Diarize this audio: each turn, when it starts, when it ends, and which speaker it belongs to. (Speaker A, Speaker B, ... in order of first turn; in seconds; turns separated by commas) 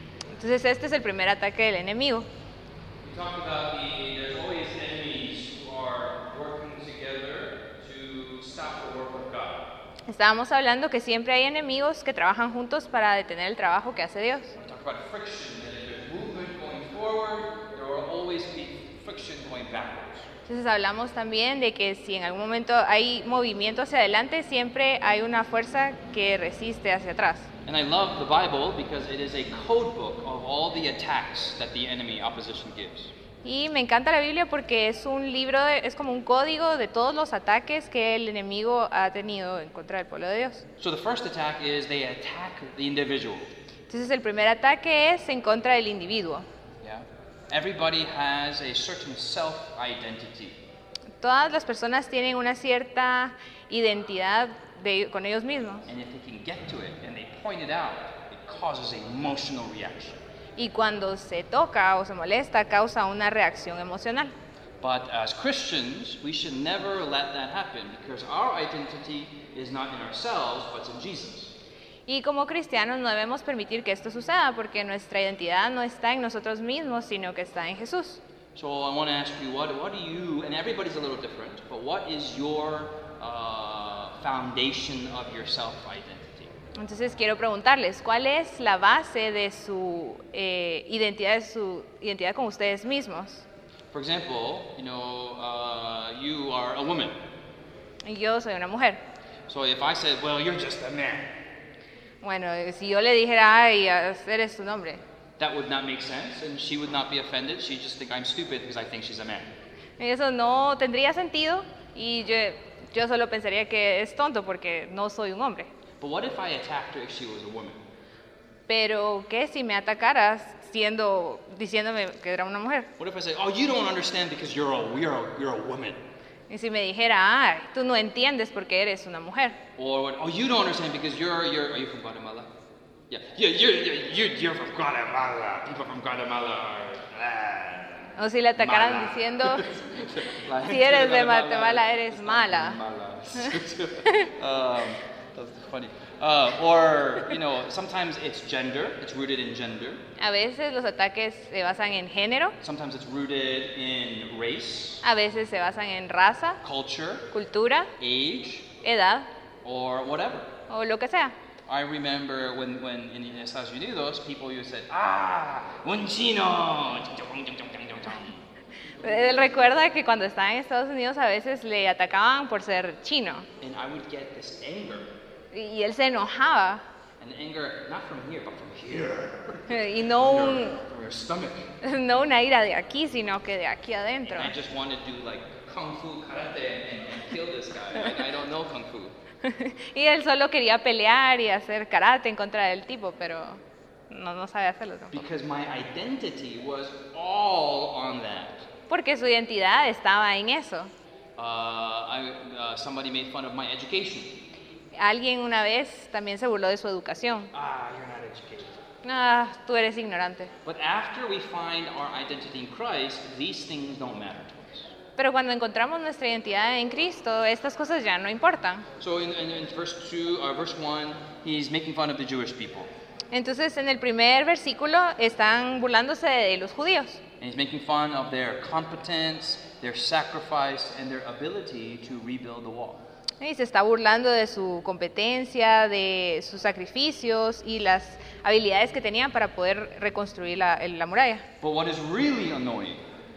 Speaker A: 0.3-2.3, Speaker B: 3.0-9.7, Speaker A: 10.1-14.5, Speaker B: 14.6-20.3, Speaker A: 20.5-27.5, Speaker B: 27.7-33.1, Speaker A: 33.4-40.7, Speaker B: 40.8-43.5, Speaker A: 43.9-46.5, Speaker B: 46.8-50.6, Speaker A: 51.2-55.9, Speaker B: 55.9-60.2, Speaker A: 60.6-64.3, Speaker B: 64.8-71.5, Speaker A: 72.1-78.2, Speaker B: 78.5-86.5, Speaker A: 86.8-93.5, Speaker B: 93.9-97.2, Speaker A: 98.0-99.0, Speaker B: 99.5-101.3, Speaker A: 102.2-105.0, Speaker B: 105.4-109.5, Speaker A: 110.0-115.7, Speaker B: 116.0-117.8, Speaker A: 118.7-122.9, Speaker B: 123.0-126.0, Speaker A: 126.5-129.6, Speaker B: 129.8-132.5, Speaker B: 133.1-150.0, Speaker A: 138.2-139.7, Speaker A: 140.6-142.8, Speaker A: 150.2-152.6, Speaker B: 152.6-155.1, Speaker A: 155.0-156.6, Speaker B: 156.6-157.3, Speaker A: 157.3-157.9, Speaker B: 158.0-158.7, Speaker A: 158.8-159.3, Speaker B: 159.6-160.5, Speaker A: 160.7-161.4, Speaker B: 161.7-168.4, Speaker A: 169.0-173.5, Speaker B: 169.0-169.5, Speaker B: 173.6-175.1, Speaker A: 175.5-176.8, Speaker B: 177.2-181.7, Speaker A: 179.7-180.8, Speaker A: 181.8-184.6, Speaker B: 184.3-189.1, Speaker A: 189.4-195.2, Speaker B: 195.1-198.7, Speaker A: 198.9-200.9, Speaker B: 201.4-204.4, Speaker A: 204.9-207.5, Speaker B: 207.5-208.8, Speaker A: 209.0-210.5, Speaker B: 210.7-214.9, Speaker A: 215.2-218.9, Speaker B: 219.0-222.9, Speaker A: 223.3-227.2, Speaker B: 227.4-233.0, Speaker A: 233.4-241.5, Speaker B: 241.6-243.0